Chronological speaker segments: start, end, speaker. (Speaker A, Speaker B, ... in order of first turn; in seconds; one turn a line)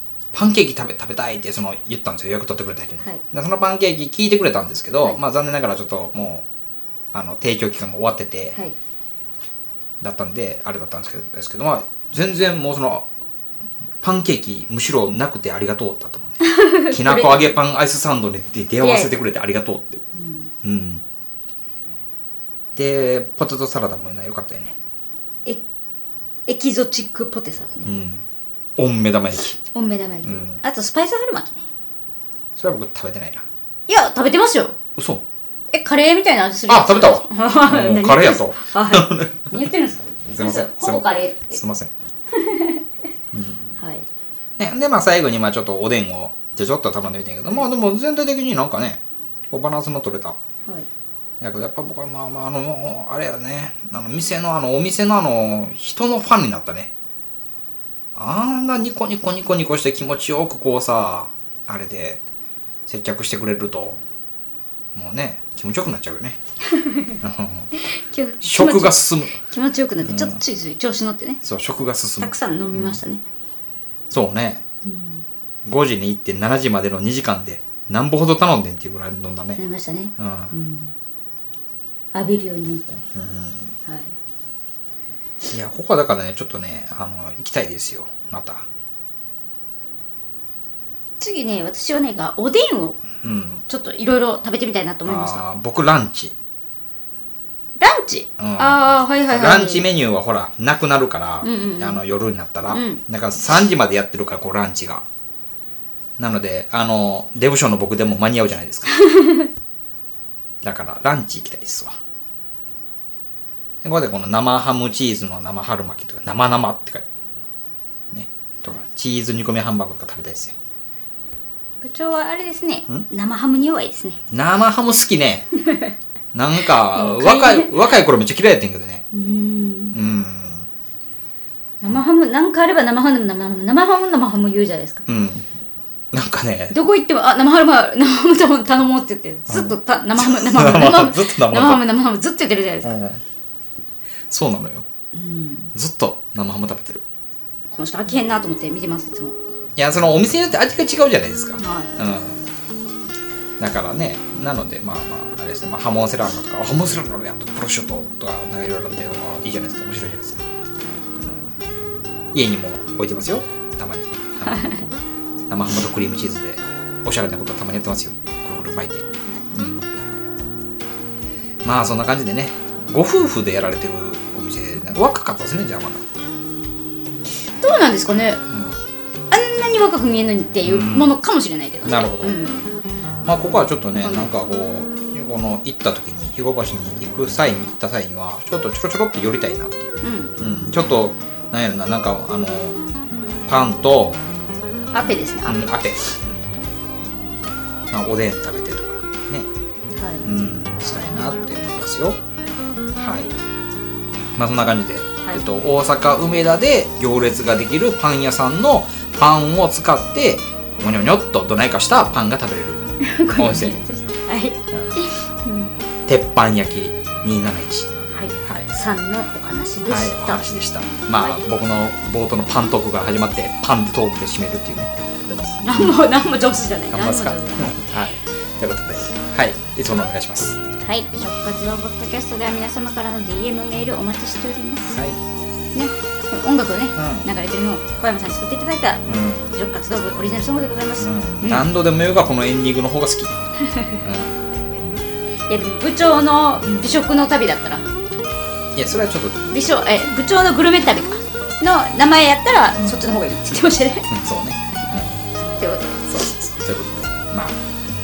Speaker A: 0.3-6.5
Speaker A: 7.1-8.6
Speaker A: 10.0-13.1
Speaker A: 14.0-20.0
Speaker B: 16.4-17.6
Speaker B: 18.8-19.2
Speaker B: 20.1-20.5
Speaker A: 20.6-21.0
Speaker A: 22.7-24.8
Speaker B: 26.5-27.9
Speaker A: 27.8-28.2
Speaker A: 28.8-29.6
Speaker B: 29.7-31.6
Speaker A: 30.2-30.6
Speaker A: 32.6-33.4
Speaker B: 33.9-34.8
Speaker A: 35.0-35.2
Speaker B: 35.7-41.6
Speaker A: 36.7-39.6
Speaker A: 40.3-41.9
Speaker B: 42.3-42.8
Speaker A: 43.3-43.7
Speaker B: 43.8-44.1
Speaker A: 44.6-50.4
Speaker A: 51.4-56.9
Speaker A: 58.1-62.2
Speaker A: 62.9-64.0
Speaker A: 64.9-66.4
Speaker B: 66.7-67.2
Speaker A: 67.2-67.7
Speaker B: 67.7-71.4
Speaker A: 68.4-69.4
Speaker A: 70.0-70.4
Speaker A: 71.4-73.0
Speaker B: 72.2-73.2
Speaker A: 74.1-74.6
Speaker B: 74.8-75.2
Speaker A: 75.7-79.6
Speaker B: 79.5-80.9
Speaker A: 80.2-80.5
Speaker B: 82.1-83.0
Speaker A: 83.1-83.7
Speaker B: 83.8-84.1
Speaker A: 85.5-88.7
Speaker B: 91.2-93.0
Speaker A: 93.2-93.6
Speaker B: 93.7-95.4
Speaker A: 95.0-96.3
Speaker B: 97.8-99.9
Speaker A: 98.4-105.0
Speaker B: 101.4-102.0
Speaker B: 102.7-103.0
Speaker A: 106.2-108.9
Speaker B: 108.9-109.5
Speaker A: 110.6-112.0
Speaker A: 113.8-117.0
Speaker A: 118.1-120.5
Speaker B: 121.8-124.2
Speaker A: 124.3-125.5
Speaker A: 126.3-129.0
Speaker B: 126.9-127.9
Speaker B: 129.1-130.0
Speaker A: 129.9-130.7
Speaker B: 131.8-135.0
Speaker A: 135.1-135.5
Speaker A: 136.1-136.8
Speaker B: 136.7-142.9
Speaker A: 139.5-141.8
Speaker A: 142.8-143.2
Speaker A: 144.3-144.9
Speaker B: 145.1-145.7
Speaker A: 145.7-147.0
Speaker B: 147.7-149.4
Speaker A: 149.8-152.4
Speaker B: 151.6-151.9
Speaker A: 153.6-160.4
Speaker A: 161.2-161.5
Speaker A: 162.3-164.8
Speaker B: 164.4-164.9
Speaker A: 165.5-169.9
Speaker A: 171.6-176.1
Speaker B: 177.6-178.4
Speaker A: 178.5-178.8
Speaker B: 179.3-182.7
Speaker A: 180.6-181.1
Speaker A: 181.8-182.4
Speaker A: 183.2-192.8
Speaker B: 184.0-184.3
Speaker B: 190.0-190.3
Speaker A: 193.5-194.2
Speaker B: 194.9-195.7
Speaker A: 195.4-196.5
Speaker A: 197.9-199.5
Speaker B: 200.0-200.2
Speaker A: 200.2-202.2
Speaker A: 202.9-203.3
Speaker A: 204.3-213.8
Speaker B: 213.0-215.7
Speaker A: 214.7-215.0
Speaker A: 216.1-218.7
Speaker B: 218.1-220.4
Speaker A: 219.9-224.9
Speaker B: 225.3-227.9
Speaker A: 226.9-230.6
Speaker B: 230.8-235.0
Speaker B: 235.7-241.7
Speaker A: 236.9-237.3
Speaker A: 239.1-239.4
Speaker A: 241.0-243.3
Speaker A: 244.0-244.3
Speaker B: 245.5-247.8
Speaker A: 246.6-246.9
Speaker A: 248.7-249.4
Speaker B: 249.5-254.1
Speaker A: 252.7-253.1
Speaker A: 254.1-255.2
Speaker B: 255.5-256.1
Speaker A: 256.1-257.6